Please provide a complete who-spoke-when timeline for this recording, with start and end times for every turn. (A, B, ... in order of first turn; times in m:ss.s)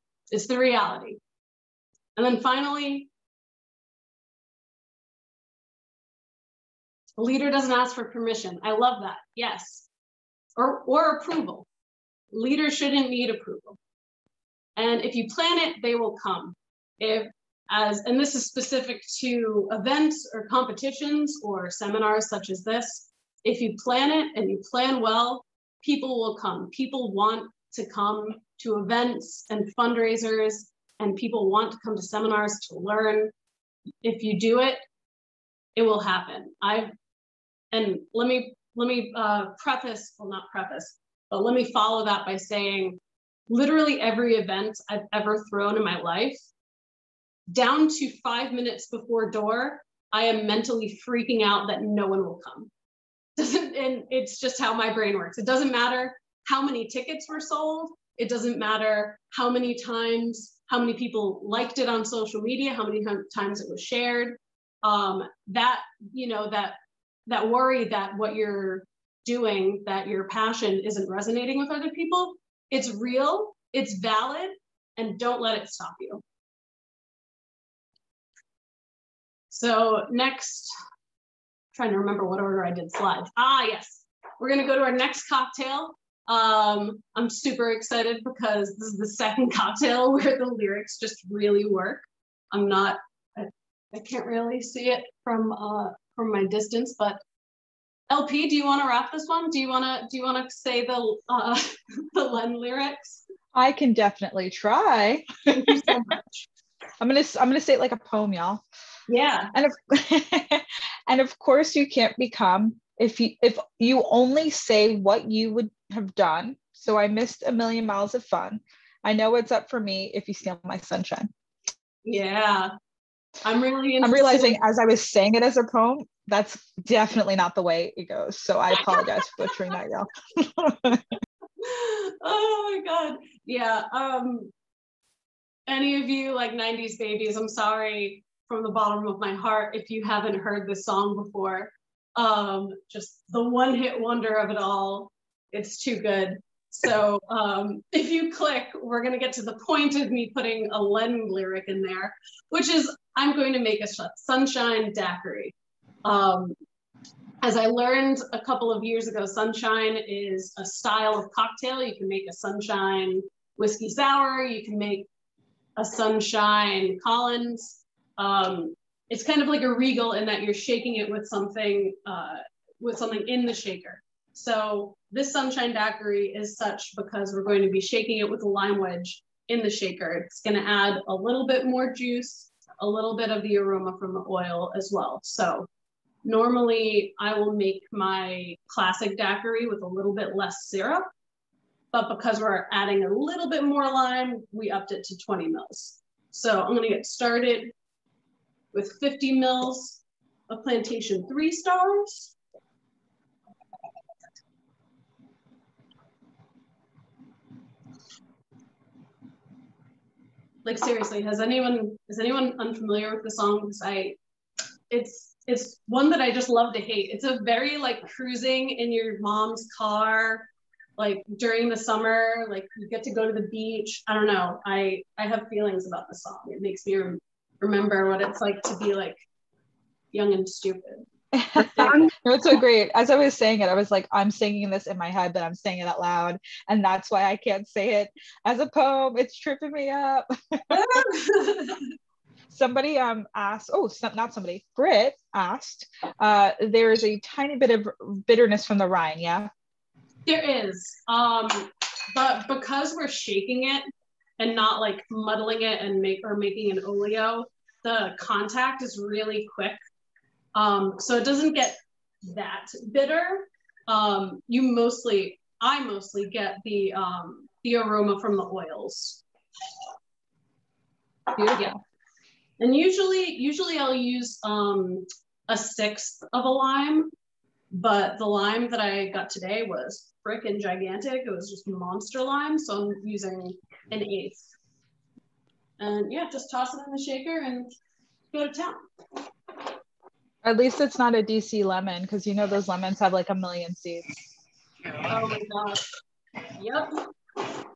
0:00.3-0:01.2 A
0:02.2-0:03.1 A
0:07.2-0:09.9 A
0:10.6-0:11.7 A
0:12.3-0:13.8 A
0:14.8-0:33.3 A
0:34.0-0:34.8 A
0:35.8-0:36.9 A
0:37.7-0:46.4 A
0:47.5-0:52.7 A
0:53.4-1:06.8 A
1:07.3-1:16.2 A
1:19.5-1:20.7 A
1:21.7-1:37.2 A
1:38.1-1:43.2 A
1:43.5-1:46.0 B
1:45.5-1:46.5 A
1:47.0-1:48.6 B
1:49.1-1:49.5 A
1:49.5-2:01.3 B
2:02.0-2:02.7 A
2:03.4-2:04.6 A
2:04.0-2:11.1 B
2:08.8-2:09.5 A
2:11.6-2:14.5 A
2:15.7-2:36.6 A
2:37.4-2:45.1 A
2:45.8-3:05.7 A
3:06.2-3:11.1 A
3:11.9-3:17.7 A
3:18.7-3:22.4 A
3:30.6-3:34.2 A
3:34.9-3:49.2 A
3:50.1-3:52.1 A
3:51.3-4:01.0 B
4:00.7-4:01.9 A
4:02.5-4:09.5 B
4:10.3-4:13.9 A
4:14.4-4:19.8 A
4:20.6-4:29.2 A
4:31.4-4:31.8 A
4:32.6-4:37.1 A
4:37.7-4:44.5 A
4:45.8-4:47.7 A
4:48.3-4:48.8 A
4:50.4-4:54.2 B
4:55.1-4:55.8 A
4:56.6-4:57.0 A